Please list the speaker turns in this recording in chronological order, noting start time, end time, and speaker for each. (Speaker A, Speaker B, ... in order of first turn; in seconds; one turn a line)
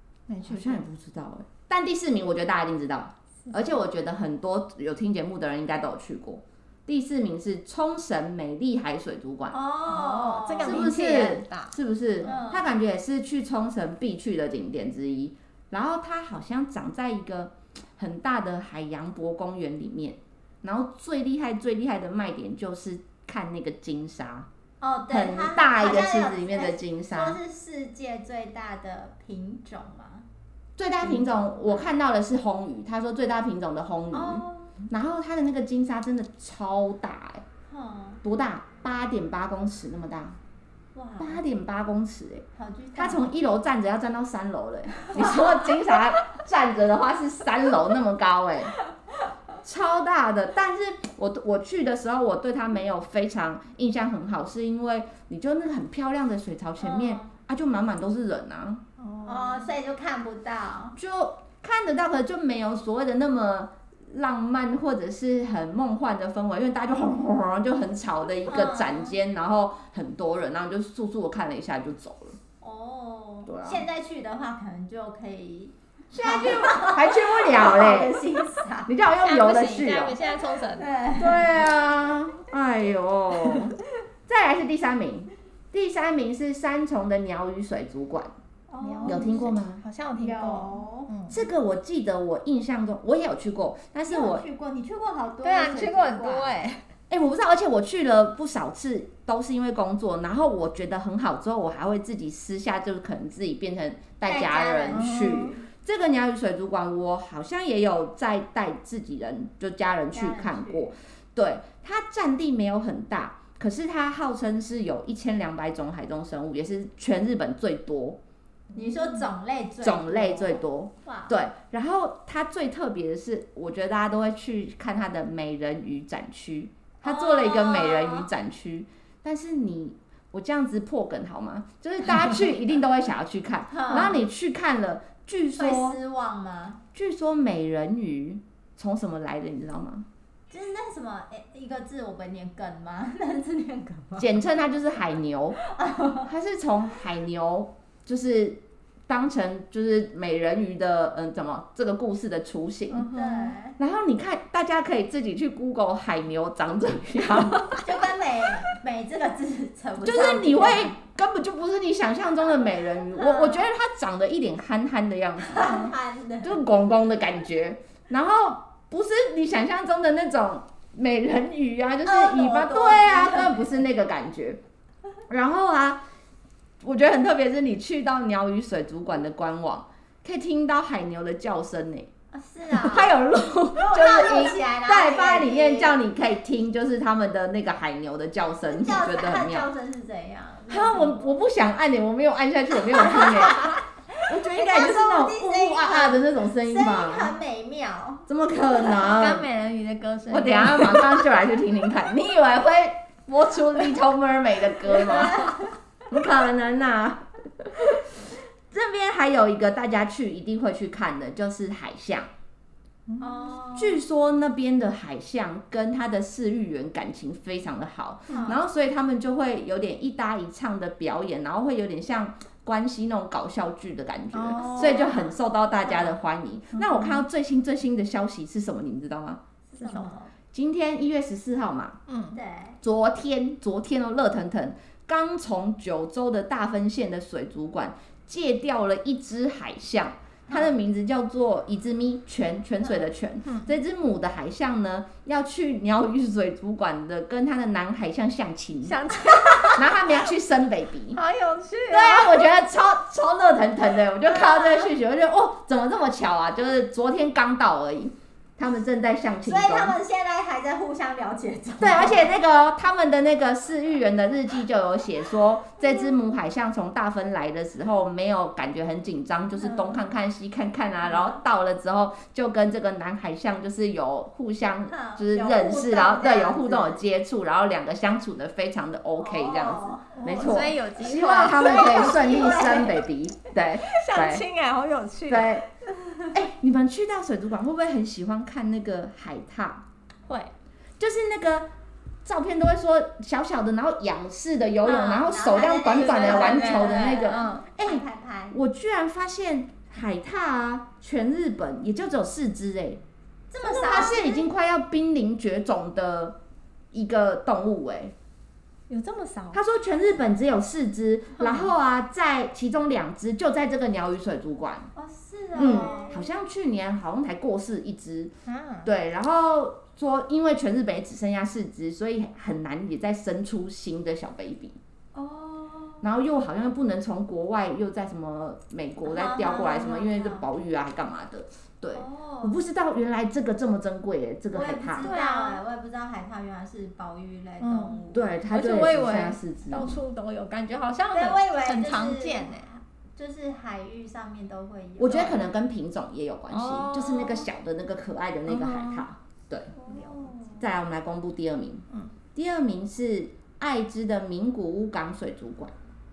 Speaker A: 0.3-0.8
Speaker B: 0.4-9.6
Speaker C: 9.5-10.9
Speaker A: 9.9-11.7
Speaker B: 10.6-24.5
Speaker C: 12.2-12.7
Speaker C: 24.8-30.2
Speaker B: 25.1-27.4
Speaker B: 30.8-37.4
Speaker C: 31.0-31.9
Speaker C: 34.1-34.7
Speaker C: 37.7-38.2
Speaker B: 38.2-40.4
Speaker C: 40.9-41.4
Speaker B: 41.2-48.7
Speaker C: 42.5-43.3
Speaker C: 45.0-45.6
Speaker B: 49.6-58.8
Speaker C: 56.8-57.3
Speaker A: 59.0-59.7
Speaker C: 59.2-61.0
Speaker B: 61.0-72.4
Speaker C: 68.5-69.2
Speaker C: 72.6-78.9
Speaker B: 73.5-73.8
Speaker B: 76.1-78.2
Speaker B: 78.8-80.2
Speaker A: 79.2-80.9
Speaker C: 80.7-81.5
Speaker B: 81.2-88.3
Speaker C: 88.7-89.5
Speaker A: 88.8-91.4
Speaker B: 89.0-89.8
Speaker C: 90.2-91.1
Speaker B: 91.3-94.4
Speaker C: 94.1-96.6
Speaker A: 95.4-96.8
Speaker B: 97.1-118.2
Speaker C: 104.2-105.6
Speaker A: 104.9-105.6
Speaker C: 110.1-110.9
Speaker C: 118.7-121.3
Speaker B: 119.8-136.0
Speaker C: 127.0-128.3
Speaker C: 133.7-134.2
Speaker C: 135.6-136.8
Speaker B: 136.9-140.1
Speaker C: 140.5-144.4
Speaker B: 144.2-145.6
Speaker C: 145.6-146.3
Speaker B: 146.2-153.1
Speaker A: 152.9-153.6
Speaker C: 153.1-153.8
Speaker B: 153.8-157.7
Speaker A: 157.4-157.8
Speaker C: 157.8-160.9
Speaker B: 160.0-165.8
Speaker C: 163.1-163.6
Speaker C: 165.4-166.6
Speaker B: 166.4-174.6
Speaker C: 172.0-173.8
Speaker B: 175.3-176.0
Speaker B: 176.8-182.1
Speaker C: 182.3-183.1
Speaker B: 182.7-189.7
Speaker C: 183.7-186.0
Speaker C: 188.7-191.3
Speaker B: 190.7-193.8
Speaker C: 192.9-198.2
Speaker B: 194.3-197.3
Speaker B: 198.3-199.5
Speaker A: 198.9-201.3
Speaker B: 200.3-205.5
Speaker C: 204.9-205.7
Speaker B: 206.1-212.3
Speaker A: 213.1-213.6
Speaker C: 213.2-214.0
Speaker B: 213.7-229.4
Speaker A: 218.3-218.6
Speaker C: 218.3-218.6
Speaker A: 224.3-225.1
Speaker C: 224.6-226.2
Speaker A: 226.7-227.2
Speaker C: 229.7-230.3
Speaker A: 229.8-230.2
Speaker B: 230.5-232.0
Speaker A: 232.1-232.4
Speaker C: 232.3-232.8
Speaker B: 232.8-249.1
Speaker C: 240.5-240.7
Speaker A: 248.8-250.1
Speaker B: 249.7-251.2
Speaker A: 251.1-252.4
Speaker B: 251.9-259.9
Speaker C: 254.3-254.9
Speaker C: 259.4-262.3
Speaker B: 261.8-284.4
Speaker C: 269.6-269.9
Speaker C: 271.1-271.3
Speaker C: 274.9-277.0
Speaker C: 279.2-280.2
Speaker A: 280.1-282.9
Speaker C: 281.5-283.0
Speaker A: 283.8-285.6
Speaker B: 285.3-285.6
Speaker B: 286.3-289.8
Speaker A: 290.3-290.5
Speaker B: 291.0-291.7
Speaker B: 292.2-303.0
Speaker C: 294.8-298.6
Speaker A: 295.9-297.7
Speaker C: 303.5-304.5
Speaker B: 303.6-306.4
Speaker B: 306.9-308.1
Speaker A: 308.9-309.6
Speaker B: 309.5-314.9
Speaker A: 311.4-311.7
Speaker C: 314.9-316.2
Speaker B: 315.5-318.3
Speaker A: 315.8-316.1
Speaker A: 318.4-318.9
Speaker B: 318.8-324.8
Speaker C: 325.1-326.0
Speaker B: 326.0-335.1
Speaker C: 329.0-330.4
Speaker C: 331.9-332.6
Speaker C: 334.5-338.3
Speaker A: 335.0-335.6
Speaker A: 337.6-342.7
Speaker B: 338.1-340.0
Speaker C: 341.1-345.5
Speaker B: 345.0-349.7
Speaker A: 346.5-347.5
Speaker A: 348.5-349.0
Speaker A: 349.8-350.4
Speaker C: 349.8-350.6
Speaker B: 350.6-355.7